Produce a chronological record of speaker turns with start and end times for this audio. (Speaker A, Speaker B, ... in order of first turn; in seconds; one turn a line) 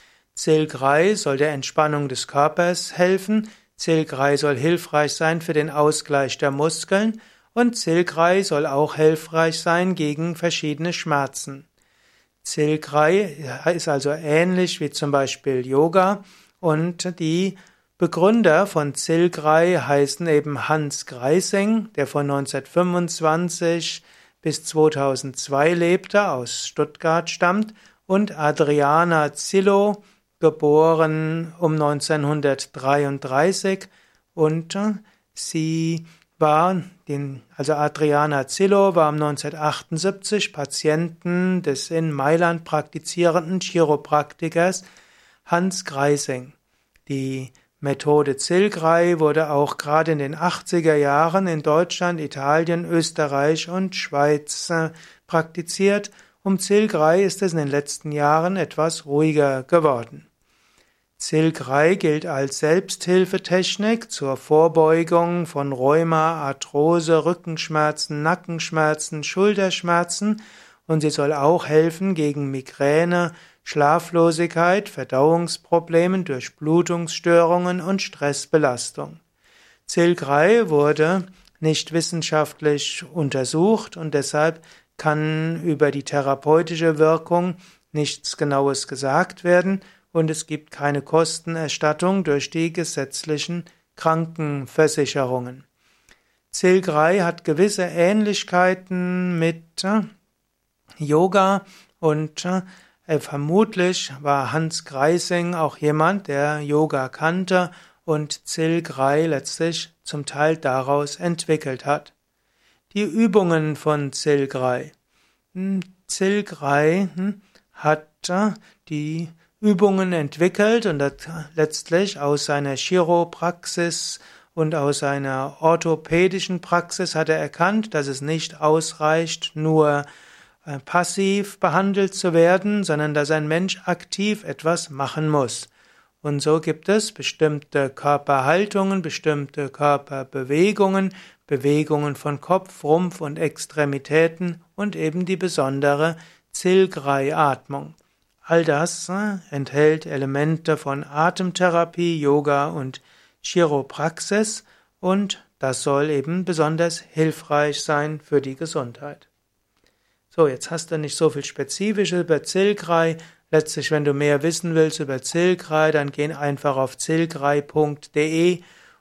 Speaker A: 0.3-11.7
Speaker A: 12.4-44.8
Speaker A: 45.5-46.5
Speaker A: 47.1-60.3
Speaker A: 61.2-79.2
Speaker A: 79.9-95.6
Speaker A: 96.5-100.1
Speaker A: 101.0-112.1
Speaker A: 112.9-114.9
Speaker A: 115.5-130.1
Speaker A: 130.6-135.7
Speaker A: 136.2-159.3
Speaker A: 160.3-168.6